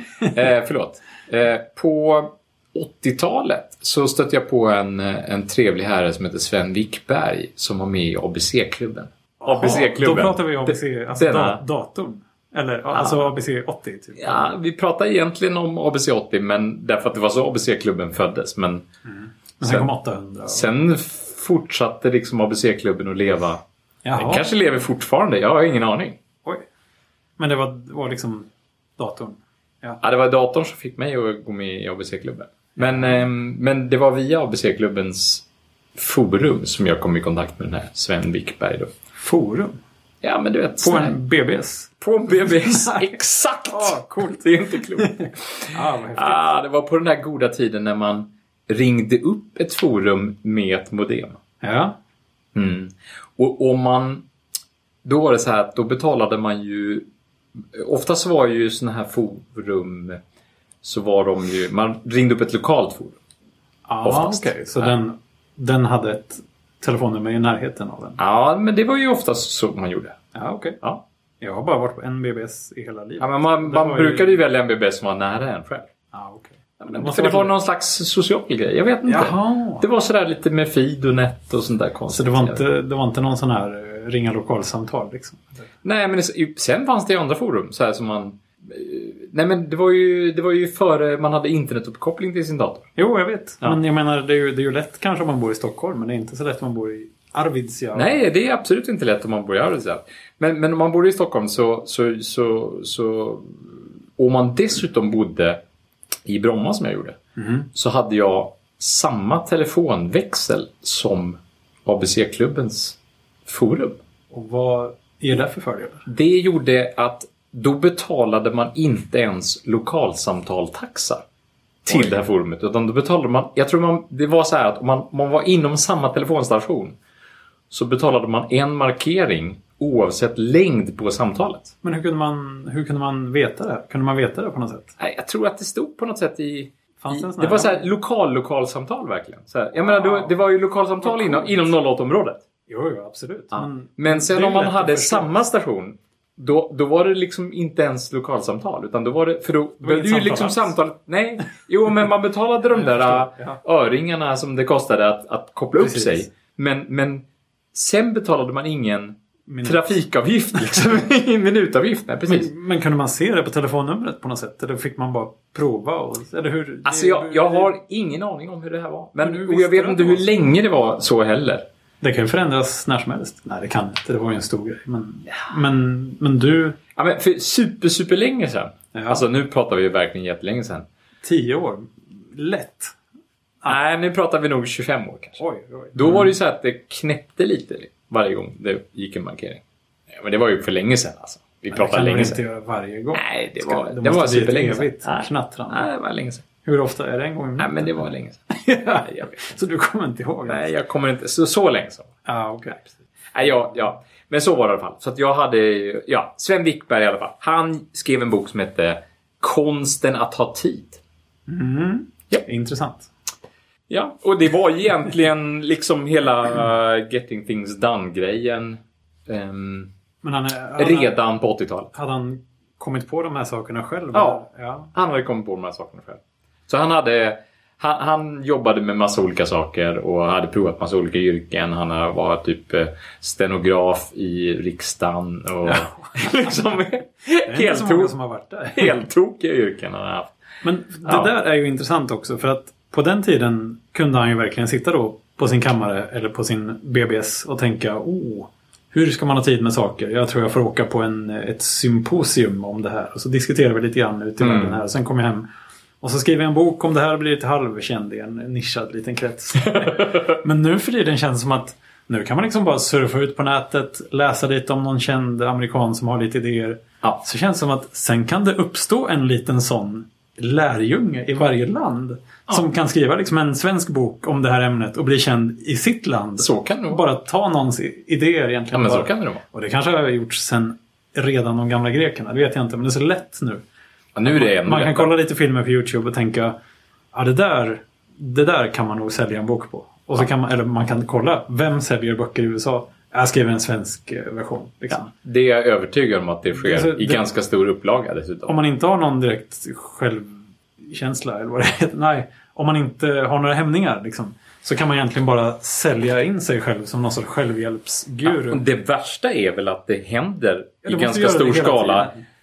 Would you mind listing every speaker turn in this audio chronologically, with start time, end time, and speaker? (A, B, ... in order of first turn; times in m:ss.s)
0:00.2-0:11.6 A
0:09.4-0:14.5 B
0:12.9-0:13.3 A
0:14.2-0:18.8 A
0:19.0-0:20.7 B
0:19.6-0:19.9 A
0:20.5-0:23.6 A
0:24.0-0:24.5 B
0:24.2-0:26.2 A
0:27.4-0:30.0 B
0:30.0-0:38.9 A
0:39.2-0:39.8 B
0:40.2-0:41.2 A
0:40.8-0:41.9 B
0:42.0-0:51.4 A
0:42.5-0:43.0 B
0:43.7-0:46.5 B
0:51.6-0:52.0 B
0:52.5-0:54.2 A
0:55.0-0:57.0 A
0:57.7-1:00.2 A
1:00.8-1:03.2 A
1:03.9-1:08.2 B
1:04.0-1:04.9 A
1:08.2-1:10.2 A
1:10.3-1:10.8 B
1:11.4-1:14.4 B
1:13.2-1:15.9 A
1:16.1-1:17.5 B
1:16.8-1:22.6 A
1:19.0-1:19.8 B
1:22.1-1:25.6 B
1:25.8-1:32.9 A
1:33.0-1:38.2 B
1:37.9-1:45.6 A
1:46.2-1:47.2 A
1:47.4-1:47.7 B
1:47.7-1:54.0 A
1:54.3-1:56.0 B
1:56.1-2:01.2 A
2:01.8-2:07.0 A
2:01.9-2:02.2 B
2:07.7-2:11.7 A
2:11.8-2:14.9 B
2:15.0-2:22.4 A
2:17.0-2:17.9 B
2:19.7-2:20.4 B
2:21.0-2:21.6 B
2:22.7-2:25.3 B
2:23.5-2:42.5 A
2:29.8-2:30.7 B
2:32.7-2:33.6 B
2:35.8-2:36.2 B
2:39.5-2:39.9 B
2:42.3-2:47.7 B
2:46.8-2:51.6 A
2:49.2-2:50.3 B
2:52.0-2:56.8 B
2:57.0-3:00.9 A
2:58.9-2:59.2 B
3:01.2-3:03.0 B
3:03.7-3:05.4 A
3:05.4-3:06.3 B
3:05.9-3:12.4 A
3:11.7-3:15.9 B
3:13.1-3:16.4 A
3:16.6-3:20.6 B
3:17.6-3:18.4 A
3:19.0-3:19.3 A
3:20.5-3:22.1 A
3:22.2-3:23.0 B
3:23.3-3:31.0 A
3:31.5-3:33.1 B
3:33.9-3:39.9 A
3:40.2-3:41.1 B
3:40.8-3:41.9 A
3:41.9-3:44.9 B
3:44.1-3:58.1 A
3:55.6-3:56.1 B
3:57.5-3:59.0 B
3:58.7-4:00.3 A
4:00.6-4:15.5 B
4:01.0-4:01.3 A
4:14.4-4:14.8 A
4:16.0-4:43.6 B
4:19.7-4:20.3 A
4:36.4-4:37.0 A
4:38.7-4:39.4 A
4:44.2-4:45.1 A
4:44.2-4:46.5 B
4:47.1-4:55.1 B
4:55.1-4:58.6 A
4:56.6-4:57.2 B
4:58.5-5:08.6 B
5:08.2-5:12.1 A
5:10.8-5:12.2 B